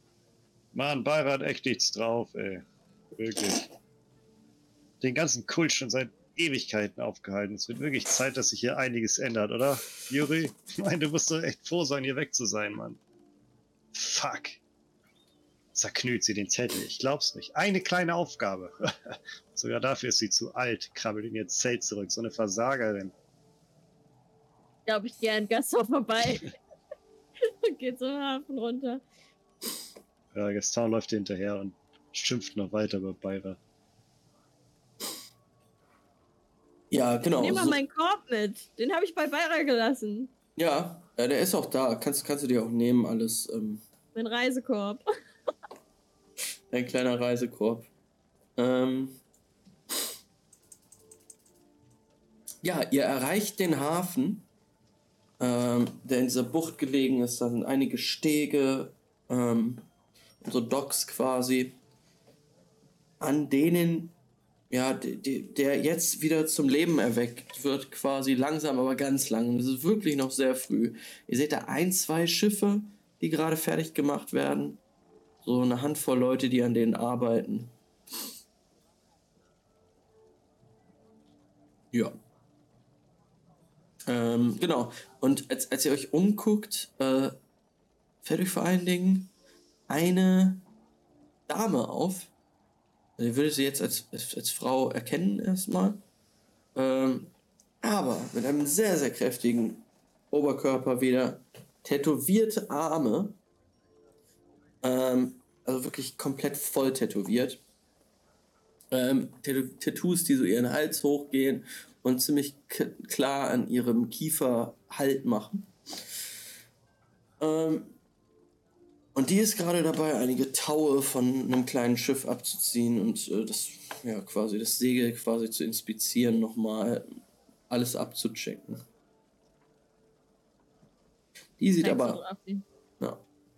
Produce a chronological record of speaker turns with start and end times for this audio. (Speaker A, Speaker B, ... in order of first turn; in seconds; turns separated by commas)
Speaker A: 0.7-3.7, Speaker A: 5.0-13.0, Speaker A: 13.9-14.6, Speaker A: 15.7-23.1, Speaker B: 24.9-26.6, Speaker B: 27.4-29.0, Speaker A: 30.3-33.6, Speaker C: 36.9-37.8, Speaker B: 37.4-40.3, Speaker C: 40.5-43.8, Speaker B: 44.1-45.0, Speaker C: 46.7-47.9, Speaker C: 48.6-49.2, Speaker C: 52.6-54.4, Speaker C: 55.4-59.8, Speaker C: 60.4-61.8, Speaker C: 63.2-64.1, Speaker C: 64.7-74.8, Speaker C: 75.4-77.7, Speaker C: 84.1-87.3, Speaker C: 88.2-89.3, Speaker C: 89.9-90.6, Speaker C: 91.5-92.3, Speaker C: 93.2-96.0, Speaker C: 96.7-103.4, Speaker C: 104.8-107.6, Speaker C: 108.9-115.7, Speaker C: 117.4-117.9, Speaker C: 119.1-128.8, Speaker C: 131.6-132.2, Speaker B: 131.8-132.6